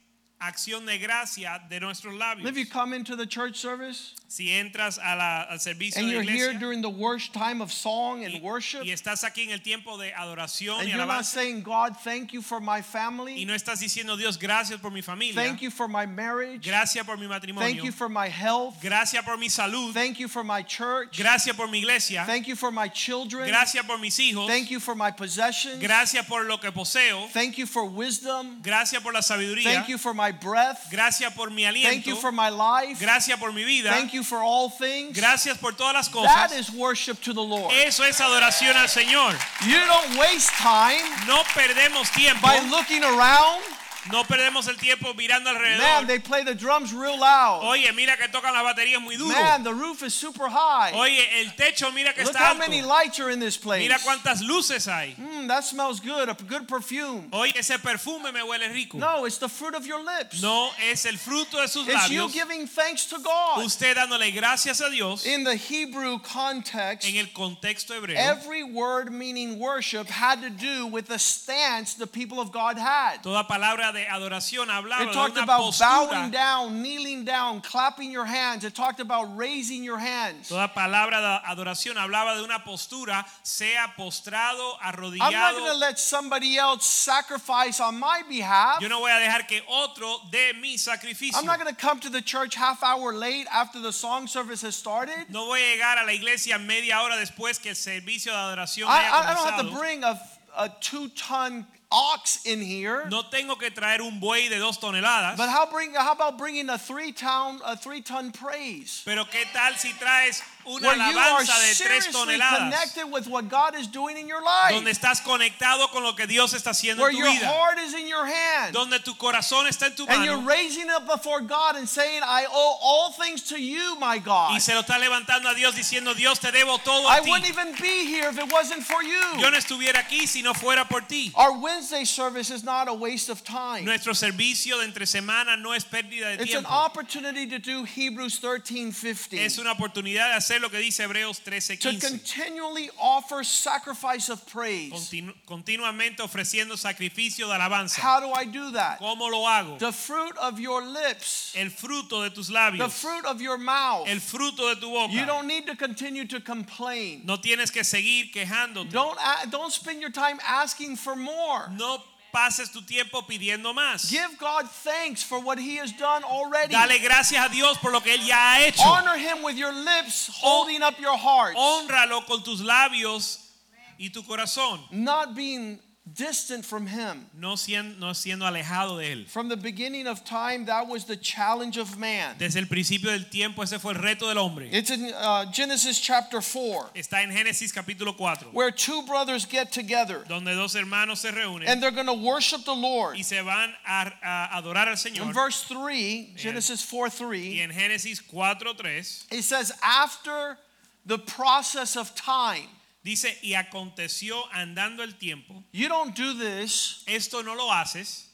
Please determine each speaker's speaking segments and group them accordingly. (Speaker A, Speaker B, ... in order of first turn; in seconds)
Speaker A: 0.4-2.7, 4.3-6.6, 8.3-11.3, 13.3-15.6, 16.6-17.9, 18.8-20.0, 21.1-22.3, 23.4-24.6, 25.7-27.3, 28.6-29.9, 30.9-32.3, 32.9-34.1, 35.1-36.6, 37.7-39.5, 41.1-42.7, 44.0-46.1, 47.6-49.6, 50.9-52.9, 53.7-55.2, 57.3-59.1, 60.3-62.4, 63.5-65.3, 67.0-68.4, 73.2-76.3, 80.5-85.7, 88.8-91.6, 95.3-99.8, 103.0-105.5, 109.0-112.9, 114.6-117.6, 118.7-120.5, 124.5-127.5, 129.3-131.3, 133.8-136.9, 139.3-142.2, 144.9-148.1, 149.0-149.8, 151.5-153.1, 154.0-155.4, 157.2-159.1, 161.7-164.2, 166.6-169.1, 170.4-170.7, 171.5-173.4, 174.0-174.9, 177.3-179.3, 182.4-184.7, 186.9-188.6, 190.2-191.8, 193.1-195.4, 196.3-196.7, 197.5-199.2, 203.0-205.6, 207.1-208.2
Speaker B: 2.4-4.2, 5.9-8.9, 10.8-13.4, 15.3-16.7, 17.6-18.8, 19.9-21.2, 22.2-23.6, 24.4-25.9, 27.3-28.6, 29.6-30.9, 31.8-33.1, 33.9-35.3, 36.1-37.8, 39.6-41.2, 42.4-43.8, 45.6-47.7, 49.2-51.0, 52.2-54.2, 55.2-57.3, 58.9-60.5, 61.8-63.7, 65.2-67.1, 68.1-73.2, 75.0-80.6, 85.2-88.9, 91.3-95.3, 98.8-103.1, 105.3-109.0, 110.8-114.9, 117.0-118.8, 120.0-124.7, 127.0-129.5, 131.3-133.9, 136.3-139.6, 141.8-145.1, 147.9-149.0, 149.8-151.6, 152.8-154.2, 155.1-157.3, 158.8-161.8, 164.0-166.9, 168.8-171.8, 174.9-177.3, 179.3-182.4, 184.7-186.9, 188.5-190.3, 191.6-193.2, 195.1-197.6, 199.3-202.8, 205.7-207.0